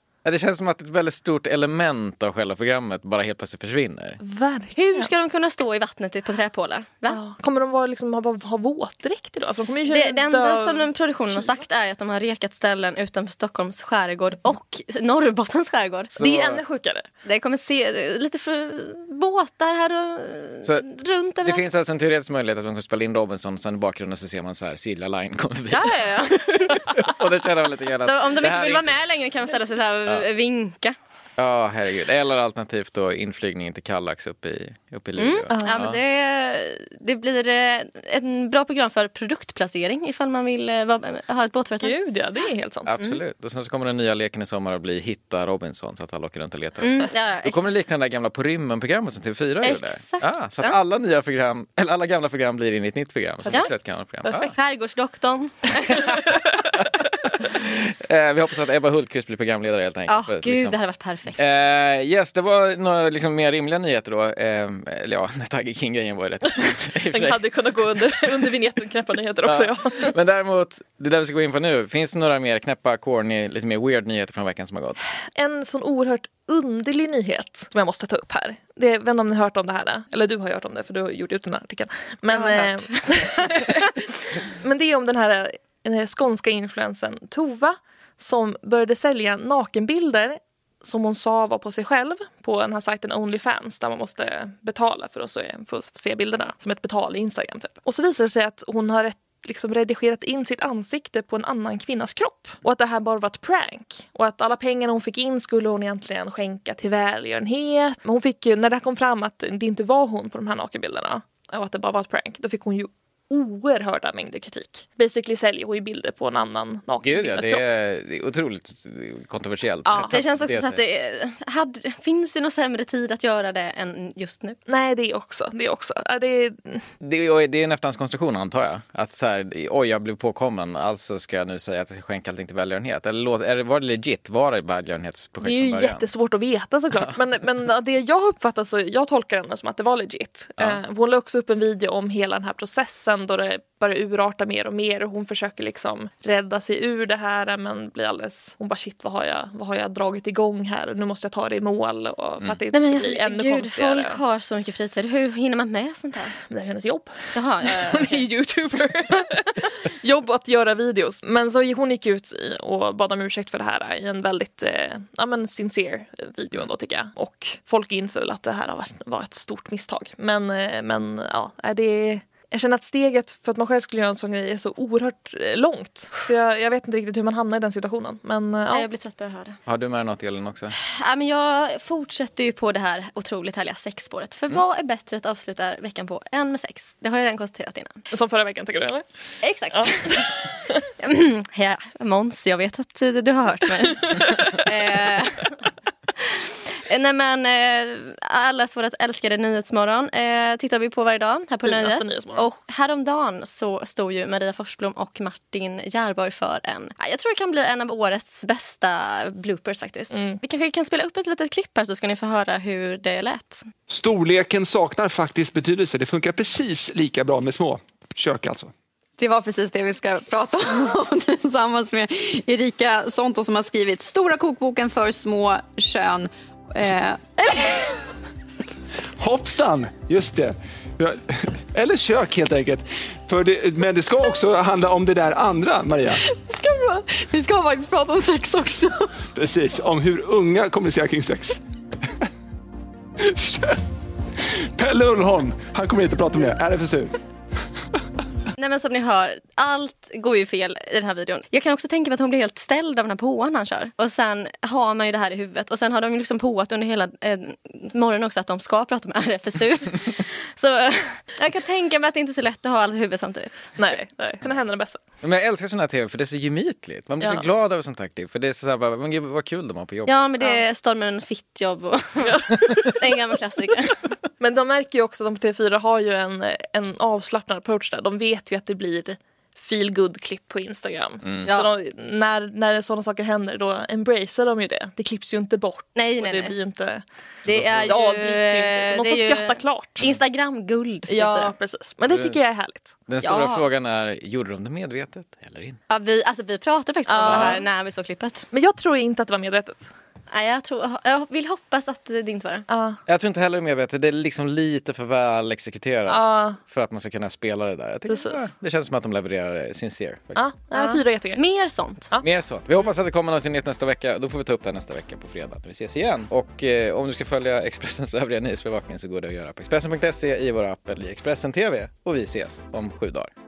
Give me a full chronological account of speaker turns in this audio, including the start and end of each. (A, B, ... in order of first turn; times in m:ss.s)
0:00.2-0:04.2 A
0:04.2-0:05.1 B
0:04.8-0:07.2 C
0:07.1-0:11.6 B
0:09.9-0:16.2 C
0:16.2-0:16.6 A
0:16.2-0:17.1 B
0:17.2-0:21.7 C
0:21.4-0:26.1 A
0:25.7-0:27.1 C
0:26.7-0:29.0 A
0:28.0-0:31.0 C
0:31.4-0:36.0 A
0:35.2-0:42.0 C
0:35.5-0:35.8 B
0:41.8-0:42.9 B
0:42.9-0:54.5 A
0:46.8-0:47.6 C
0:49.6-0:50.8 C
0:54.3-0:56.2 C
0:56.1-1:00.8 A
1:00.1-1:01.4 C
1:01.4-1:07.4 A
1:07.1-1:10.1 B
1:09.4-1:15.0 A
1:15.4-1:57.6 B
1:22.3-1:23.7 C
1:57.0-2:00.8 A
1:59.8-2:00.1 B
2:00.0-2:04.6 C
2:04.7-2:06.9 B
2:07.0-2:16.1 A
2:15.4-2:34.2 B
2:32.7-2:36.3 C
2:36.5-2:58.9 B
2:37.3-2:38.2 C
2:58.7-2:59.6 C
2:59.7-3:00.8 A
3:00.7-3:07.9 C
3:08.1-3:09.0 B
3:09.4-3:10.4 C
3:09.7-3:10.2 B
3:11.0-3:15.6 C
3:16.2-3:33.7 C
3:21.6-3:22.5 B
3:30.1-3:30.4 B
3:33.9-3:38.7 D
3:43.1-3:46.2 E
3:49.2-3:56.3 D
3:59.2-4:01.6 D
4:03.2-4:03.8 D
4:04.7-4:07.2 D
4:08.6-4:23.8 C
4:23.8-4:25.0 B
4:25.2-4:30.1 A
4:30.1-4:34.1 C
4:34.4-4:47.0 B
4:41.4-4:41.7 C
4:46.0-4:46.5 C
4:47.5-4:51.5 C
4:47.5-4:47.8 A
4:47.8-4:50.0 B
4:51.1-4:53.0 B
4:52.1-4:52.4 A
4:53.1-4:55.8 A
4:53.2-4:53.7 C
4:55.9-4:58.5 C
4:57.1-4:57.7 B
4:57.3-4:57.6 A
4:58.5-4:59.9 B
5:00.3-5:02.6 C
5:02.7-5:03.0 B
5:03.1-5:10.4 A
5:06.1-5:06.6 B
5:08.1-5:08.4 B
5:10.4-5:11.4 B
5:10.7-5:12.1 C
5:12.2-5:23.3 A